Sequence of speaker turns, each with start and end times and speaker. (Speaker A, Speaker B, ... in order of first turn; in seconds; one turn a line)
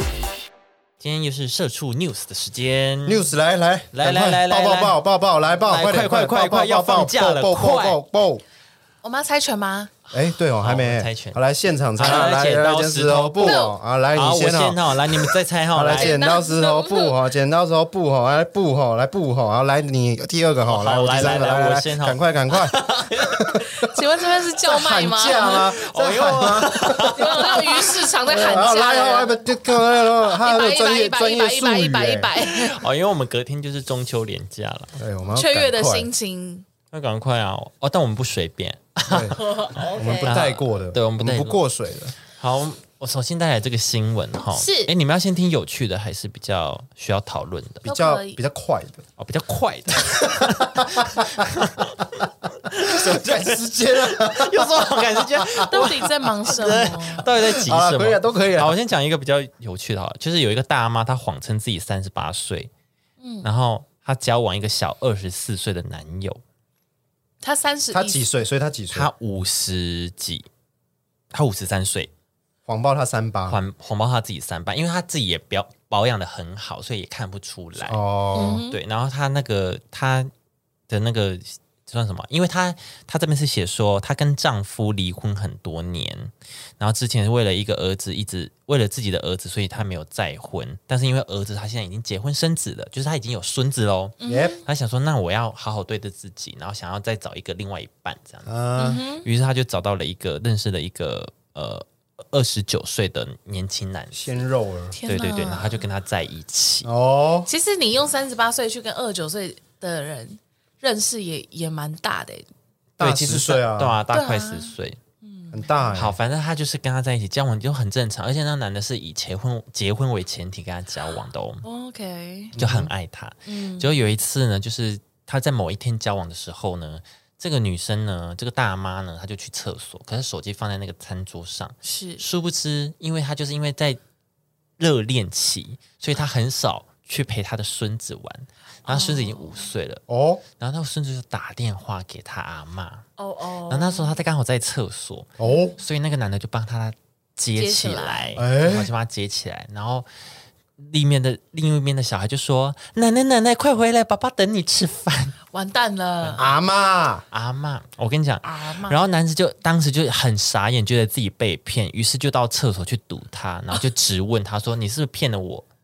Speaker A: 1.0-3.3
Speaker B: 3.1-8.4
Speaker A: 3.9-5.0
Speaker A: 5.6-8.0
Speaker C: 9.0-9.9
Speaker B: 10.1-23.9
Speaker A: 10.6-11.4
Speaker A: 11.9-16.2
Speaker C: 13.4-13.8
Speaker C: 16.0-17.2
Speaker A: 20.7-23.7
Speaker C: 23.8-25.8
Speaker B: 24.6-32.3
Speaker A: 25.3-27.9
Speaker C: 27.1-32.9
Speaker A: 32.4-35.0
Speaker B: 35.0-36.1
Speaker C: 35.3-36.7
Speaker A: 36.9-41.6
Speaker B: 39.1-42.1
Speaker C: 39.4-40.4
Speaker A: 42.3-47.9
Speaker C: 44.5-44.9
Speaker B: 47.8-49.0
Speaker C: 47.9-48.4
Speaker A: 49.2-62.7
Speaker B: 50.2-51.5
Speaker B: 52.8-55.7
Speaker C: 55.7-57.3
Speaker B: 56.7-58.7
Speaker C: 63.2-63.5
Speaker A: 63.4-66.4
Speaker C: 67.4-68.3
Speaker B: 67.9-69.1
Speaker A: 68.9-70.5
Speaker A: 71.3-72.1
Speaker B: 72.7-73.6
Speaker A: 73.5-80.3
Speaker B: 77.8-78.6
Speaker C: 78.3-78.8
Speaker A: 80.9-98.5
Speaker C: 94.2-94.6
Speaker B: 94.3-94.6
Speaker B: 98.5-99.0
Speaker C: 98.8-99.3
Speaker A: 99.2-104.4
Speaker B: 104.1-105.0
Speaker C: 104.9-105.8
Speaker A: 105.0-106.9
Speaker B: 106.8-107.5
Speaker C: 107.5-112.5
Speaker A: 113.0-115.0
Speaker B: 113.0-114.0
Speaker C: 114.1-115.9
Speaker B: 115.5-116.2
Speaker A: 115.9-121.7
Speaker C: 121.6-122.5
Speaker B: 122.5-122.9
Speaker A: 122.6-134.0
Speaker C: 123.5-123.9
Speaker C: 131.8-132.2
Speaker A: 134.8-140.0
Speaker C: 138.9-139.7
Speaker B: 140.1-140.4
Speaker A: 140.6-143.1
Speaker C: 143.2-144.2
Speaker A: 143.7-150.1
Speaker B: 145.4-145.8
Speaker C: 145.4-145.8
Speaker C: 147.6-148.4
Speaker B: 148.4-148.9
Speaker A: 150.8-155.4
Speaker C: 155.5-156.5
Speaker B: 156.4-157.3
Speaker A: 157.3-165.7
Speaker C: 158.4-159.0